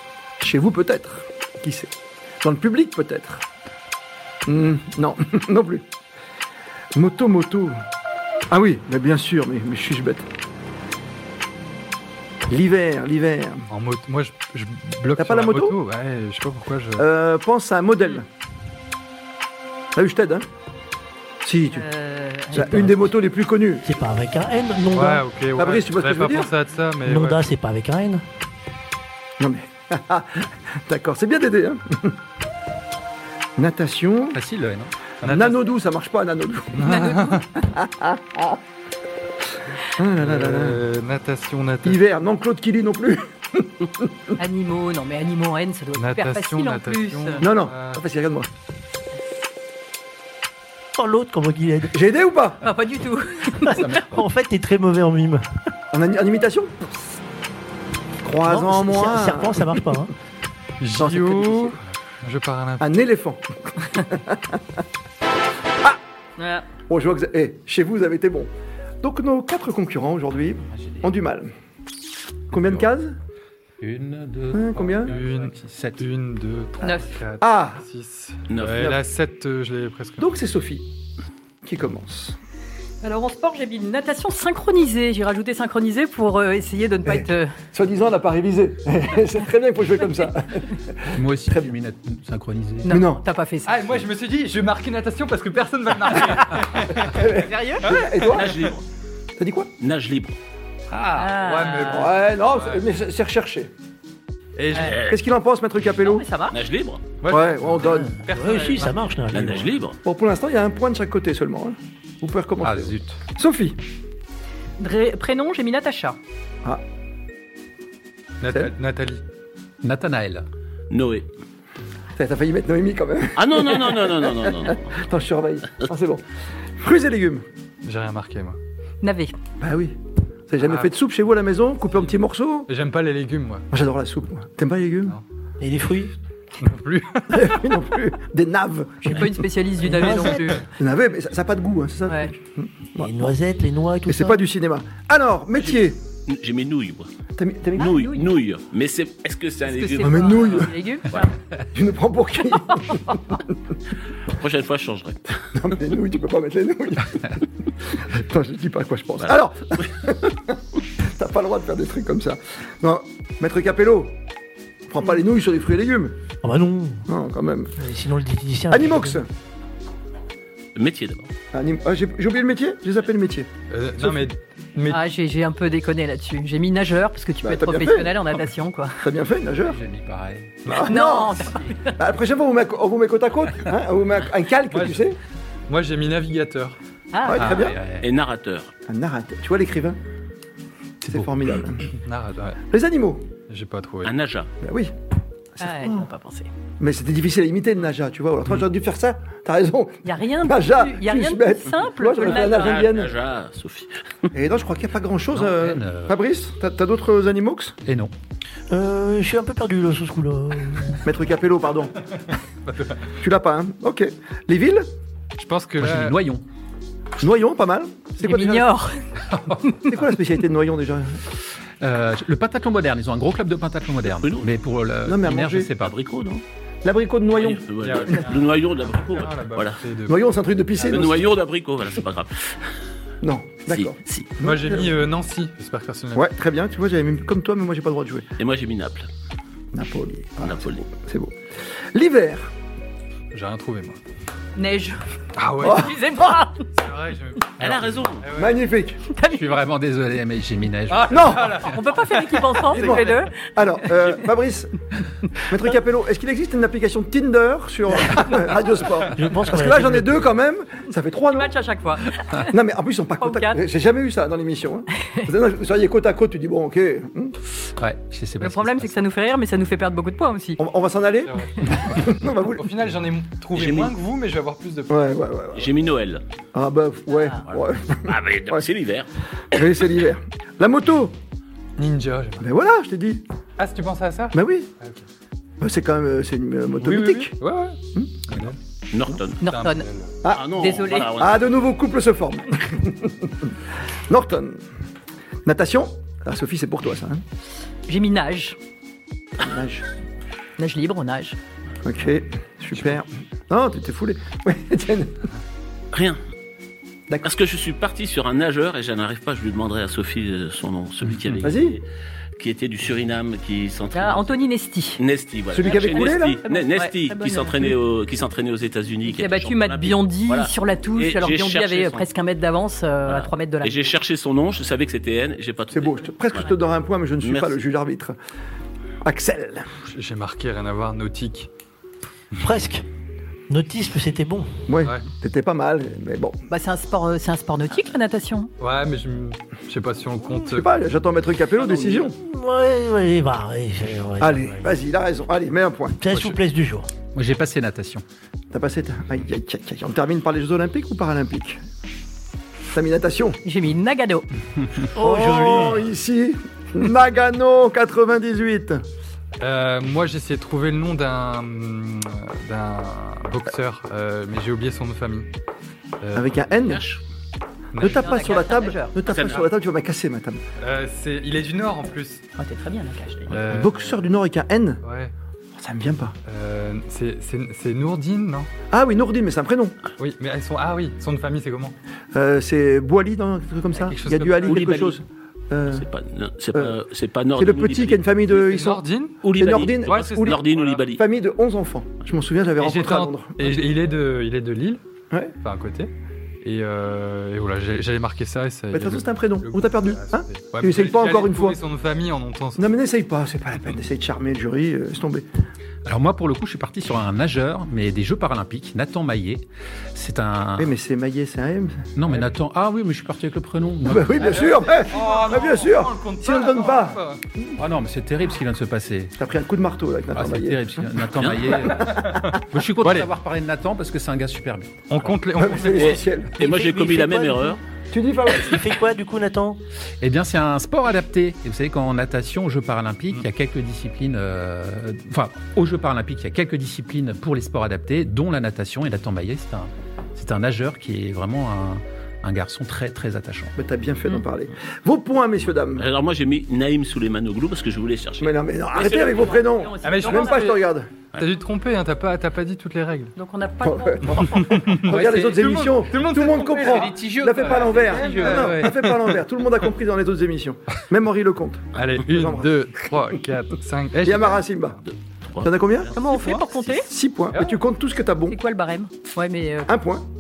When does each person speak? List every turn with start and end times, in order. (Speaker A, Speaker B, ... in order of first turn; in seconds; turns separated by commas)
Speaker A: 0.4-1.9, Speaker A: 2.4-3.4, Speaker A: 4.5-5.8, Speaker A: 7.0-7.8, Speaker A: 8.5-10.3, Speaker A: 12.5-13.7, Speaker B: 13.7-17.1, Speaker A: 15.2-15.8, Speaker A: 17.0-18.3, Speaker A: 19.9-20.5, Speaker A: 21.4-21.9, Speaker C: 21.7-22.9, Speaker A: 22.5-23.9, Speaker D: 22.6-22.9, Speaker D: 23.8-25.2, Speaker B: 24.9-27.4, Speaker A: 25.6-26.5, Speaker D: 27.1-28.2, Speaker A: 29.4-32.2, Speaker A: 33.6-34.4, Speaker E: 34.3-35.3, Speaker B: 35.2-35.6, Speaker A: 35.2-38.6, Speaker B: 36.7-37.5, Speaker C: 36.9-37.4, Speaker A: 39.8-40.8, Speaker B: 40.2-42.0, Speaker A: 41.9-44.1, Speaker C: 44.4-47.5, Speaker B: 46.0-48.0, Speaker A: 47.4-48.5, Speaker D: 51.0-52.0, Speaker A: 51.9-52.6, Speaker C: 52.6-53.8, Speaker D: 53.6-55.5, Speaker E: 53.8-54.2, Speaker A: 55.9-56.9, Speaker A: 58.2-59.8, Speaker D: 58.4-60.1, Speaker B: 60.8-62.9, Speaker A: 61.0-61.8, Speaker A: 62.8-64.6, Speaker C: 66.4-66.7, Speaker A: 66.9-68.5, Speaker A: 69.0-71.5, Speaker E: 70.8-71.1, Speaker A: 72.5-73.2, Speaker E: 73.8-76.0, Speaker A: 74.5-75.1, Speaker B: 75.1-80.4, Speaker C: 76.8-77.2, Speaker A: 77.4-77.8, Speaker F: 78.5-78.8, Speaker A: 78.7-79.0, Speaker A: 80.2-80.9, Speaker A: 81.6-82.4, Speaker C: 83.0-87.5, Speaker A: 87.1-91.7, Speaker E: 91.1-93.0, Speaker C: 92.9-93.8, Speaker A: 92.9-93.2, Speaker B: 93.7-97.3, Speaker A: 97.0-98.7, Speaker C: 97.3-98.1, Speaker F: 98.3-98.8, Speaker A: 99.4-99.7, Speaker F: 99.8-100.4, Speaker B: 100.9-102.8, Speaker C: 101.2-102.2, Speaker A: 101.9-103.7, Speaker B: 104.6-105.0, Speaker C: 104.7-105.0, Speaker F: 104.8-105.2, Speaker A: 105.0-106.2, Speaker C: 106.0-106.6, Speaker F: 106.5-107.0, Speaker B: 107.2-108.8, Speaker A: 107.3-108.2, Speaker D: 107.8-109.8, Speaker C: 108.3-108.9, Speaker F: 109.3-110.0, Speaker A: 110.0-113.8, Speaker E: 112.6-113.2, Speaker C: 114.8-116.2, Speaker B: 118.4-119.2, Speaker A: 118.5-118.7, Speaker E: 119.8-120.5, Speaker F: 120.9-121.3, Speaker A: 122.2-126.2, Speaker F: 123.4-125.0, Speaker A: 126.8-127.5, Speaker B: 127.8-128.6, Speaker C: 129.0-129.3, Speaker A: 129.6-130.0, Speaker A: 130.5-132.7, Speaker B: 130.6-130.9, Speaker B: 132.7-133.7, Speaker A: 133.7-135.2, Speaker D: 135.6-136.1, Speaker B: 136.6-137.8, Speaker A: 137.3-143.2, Speaker C: 139.0-140.7, Speaker D: 139.8-140.6, Speaker C: 142.1-142.3, Speaker D: 143.0-144.4, Speaker A: 144.1-146.0, Speaker F: 145.6-147.1, Speaker A: 147.4-148.0, Speaker F: 147.8-151.3, Speaker C: 147.8-148.3, Speaker C: 149.7-151.3, Speaker A: 150.0-150.8, Speaker A: 151.7-153.6, Speaker F: 154.3-155.5, Speaker A: 155.5-164.2, Speaker A: 164.9-166.2, Speaker D: 166.4-167.1, Speaker A: 167.1-167.7, Speaker D: 167.8-169.2, Speaker A: 168.7-169.3, Speaker F: 170.8-171.3, Speaker A: 171.5-174.3, Speaker B: 173.7-175.0, Speaker C: 174.9-179.0, Speaker A: 177.4-178.2, Speaker A: 179.0-179.8, Speaker E: 179.6-180.7, Speaker A: 180.7-185.2, Speaker C: 180.8-182.0, Speaker B: 184.7-185.1, Speaker B: 185.7-186.8, Speaker C: 187.1-187.7, Speaker A: 187.2-187.8, Speaker E: 187.3-188.1, Speaker F: 188.0-188.7, Speaker A: 188.9-190.0, Speaker A: 191.0-191.9, Speaker E: 191.1-191.3, Speaker B: 192.0-192.6, Speaker A: 192.7-193.3, Speaker B: 193.5-194.1, Speaker F: 194.1-194.5, Speaker A: 194.6-194.9, Speaker C: 195.6-196.5, Speaker A: 195.6-196.1, Speaker A: 196.8-203.1, Speaker C: 200.0-202.9, Speaker F: 202.2-204.3, Speaker A: 204.3-207.8, Speaker E: 205.3-206.2, Speaker E: 207.8-208.1, Speaker D: 208.7-211.2, Speaker A: 211.0-212.1, Speaker B: 212.7-213.0, Speaker A: 213.2-214.9, Speaker B: 215.4-216.2, Speaker E: 215.8-216.4, Speaker A: 217.2-218.7, Speaker C: 218.2-219.9, Speaker A: 219.9-221.2, Speaker E: 221.8-226.0, Speaker F: 224.1-224.5, Speaker A: 225.1-225.7, Speaker F: 225.8-226.4, Speaker A: 226.8-228.4, Speaker F: 227.3-229.8, Speaker B: 227.8-228.6, Speaker B: 229.1-230.2, Speaker A: 230.1-231.3, Speaker F: 230.8-232.6, Speaker A: 233.2-235.0, Speaker F: 233.7-234.3, Speaker B: 234.4-236.3, Speaker A: 236.2-238.3, Speaker F: 238.4-239.1, Speaker A: 239.7-241.3, Speaker F: 240.4-240.8, Speaker A: 241.9-242.5, Speaker B: 243.3-244.0, Speaker C: 244.6-245.0, Speaker B: 245.4-245.9, Speaker C: 245.6-246.7, Speaker A: 245.6-245.9, Speaker B: 246.7-248.6, Speaker F: 247.6-248.3, Speaker A: 248.3-249.0, Speaker C: 249.1-249.6, Speaker E: 249.3-251.4, Speaker B: 250.9-253.0, Speaker A: 251.1-251.6, Speaker C: 251.6-253.5, Speaker A: 252.7-254.8, Speaker A: 255.4-261.5, Speaker D: 259.1-260.4, Speaker C: 261.3-262.5, Speaker A: 262.4-267.4, Speaker C: 263.2-263.6, Speaker E: 267.8-269.0, Speaker C: 268.4-270.6, Speaker A: 270.6-272.7, Speaker B: 271.2-275.2, Speaker F: 273.5-273.9, Speaker A: 274.9-275.7, Speaker F: 275.6-276.2, Speaker A: 276.5-278.6, Speaker F: 277.5-279.6, Speaker A: 279.5-281.1, Speaker B: 281.8-282.5, Speaker A: 282.4-283.2, Speaker B: 283.6-285.0, Speaker A: 284.3-284.7, Speaker A: 285.6-287.4, Speaker B: 286.8-288.6, Speaker A: 287.9-288.5, Speaker F: 288.9-289.5, Speaker C: 289.4-289.9, Speaker B: 289.5-290.1, Speaker A: 290.2-293.6, Speaker F: 290.3-291.7, Speaker C: 290.5-291.1, Speaker A: 294.1-294.6, Speaker A: 295.4-297.2, Speaker C: 297.9-298.6, Speaker A: 299.4-299.9, Speaker C: 300.6-301.4, Speaker A: 301.8-305.3, Speaker F: 305.9-306.2, Speaker F: 307.2-311.9, Speaker E: 311.1-311.5, Speaker A: 311.4-311.8, Speaker F: 312.4-314.4, Speaker C: 313.9-315.0, Speaker F: 315.0-322.1, Speaker A: 315.5-316.4, Speaker C: 315.7-317.8, Speaker C: 319.1-323.9, Speaker F: 323.1-326.6, Speaker A: 325.7-328.1, Speaker F: 327.2-327.6, Speaker A: 329.0-329.7, Speaker B: 329.9-331.5, Speaker D: 332.4-332.9, Speaker D: 333.5-334.7, Speaker A: 334.7-336.4, Speaker C: 336.5-338.5, Speaker B: 338.6-340.7, Speaker A: 340.4-342.1, Speaker F: 341.6-342.0, Speaker D: 342.1-344.8, Speaker A: 344.2-346.4, Speaker D: 346.0-346.9, Speaker E: 347.1-348.1, Speaker A: 348.5-351.6, Speaker A: 352.7-353.4, Speaker C: 353.4-354.3, Speaker A: 354.9-358.8, Speaker D: 354.9-355.9, Speaker B: 359.4-365.3, Speaker B: 366.0-366.4, Speaker A: 366.1-366.9, Speaker F: 366.7-367.0, Speaker B: 367.7-368.5, Speaker C: 367.8-369.3, Speaker A: 367.8-370.4, Speaker F: 369.1-369.5, Speaker B: 370.6-372.2, Speaker C: 372.4-373.4, Speaker B: 373.3-374.0, Speaker A: 373.5-374.8, Speaker B: 374.8-375.1, Speaker A: 375.6-376.2, Speaker B: 376.3-378.5, Speaker A: 378.7-379.8, Speaker B: 380.0-381.8, Speaker A: 382.1-385.9, Speaker B: 383.8-384.9, Speaker F: 384.5-385.0, Speaker F: 385.7-388.1, Speaker A: 387.4-388.9, Speaker B: 388.3-390.8, Speaker F: 389.2-391.0, Speaker A: 389.4-393.5, Speaker B: 392.6-394.8, Speaker B: 395.4-395.9, Speaker B: 396.4-402.6, Speaker A: 398.7-401.6, Speaker A: 402.6-405.3, Speaker E: 405.9-410.8, Speaker A: 410.6-411.9, Speaker E: 412.0-414.7, Speaker A: 413.8-417.0, Speaker B: 414.3-417.2, Speaker E: 417.6-419.1, Speaker A: 419.2-422.4, Speaker E: 420.1-425.1, Speaker B: 421.7-423.1, Speaker B: 424.9-426.1, Speaker A: 425.4-426.4, Speaker F: 425.6-427.6, Speaker D: 426.4-427.6, Speaker A: 427.9-428.7, Speaker D: 428.3-429.6, Speaker E: 430.0-443.6, Speaker A: 443.6-445.9, Speaker F: 445.8-449.4, Speaker A: 448.2-450.9, Speaker C: 448.8-450.6, Speaker B: 449.8-450.6, Speaker B: 451.2-453.1, Speaker C: 453.2-454.4, Speaker A: 453.6-463.2, Speaker B: 454.1-459.2, Speaker E: 454.9-455.7, Speaker E: 456.6-458.7, Speaker C: 458.0-458.4, Speaker B: 461.7-464.4, Speaker A: 464.0-464.8, Speaker F: 464.8-466.8, Speaker A: 465.4-465.9, Speaker C: 465.9-466.9, Speaker B: 466.1-466.4, Speaker A: 466.8-468.4, Speaker B: 467.3-467.6, Speaker C: 468.3-469.7, Speaker A: 469.7-470.1